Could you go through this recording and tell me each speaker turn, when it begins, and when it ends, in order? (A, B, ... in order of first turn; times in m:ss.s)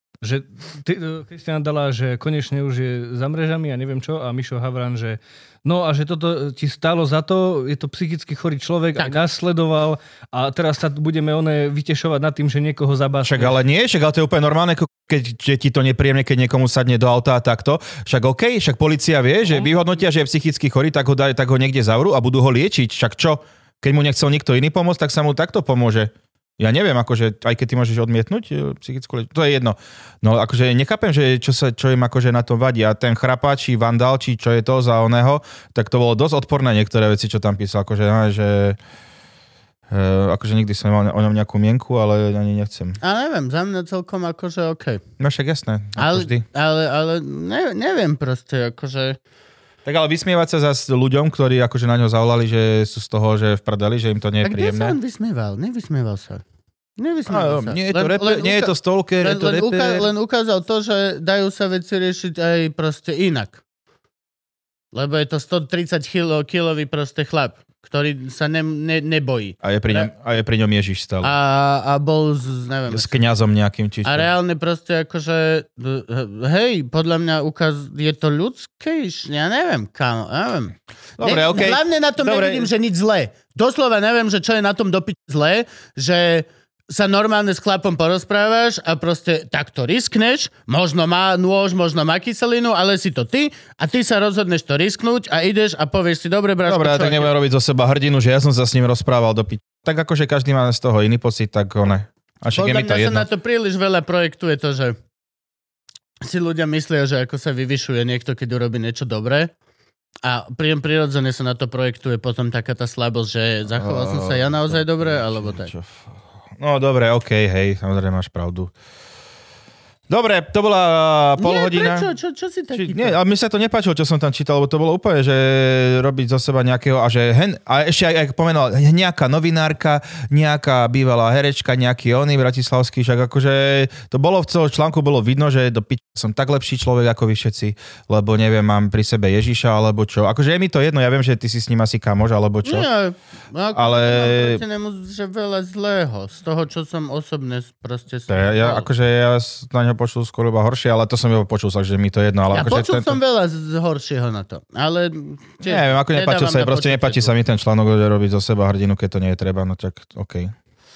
0:00.2-0:13.6 A
0:13.2-0:38.8 B
0:39.9-0:43.0 B
0:43.0-0:45.0 C
0:45.2-0:46.4 B
0:46.0-0:49.2 C
0:49.8-0:55.0 B
0:54.4-0:56.4 C
0:57.0-1:03.6 C
0:57.3-1:00.1 B
1:04.9-1:10.1 C
1:09.6-1:11.3 B
1:11.2-1:13.1 C
1:12.9-1:14.3 B
1:14.0-1:37.3 C
1:21.2-1:22.7 B
1:36.6-1:43.2 B
1:42.6-1:45.0 C
1:46.2-1:49.5 C
1:50.2-1:55.7 C
1:53.7-1:56.0 B
1:56.6-1:58.7 B
2:00.1-2:02.1 B
2:01.4-2:03.2 C
2:02.7-2:22.9 B
2:22.6-2:28.9 C
2:23.7-2:24.6 B
2:28.3-2:33.2 B
2:32.5-2:37.4 C
2:35.6-2:40.5 B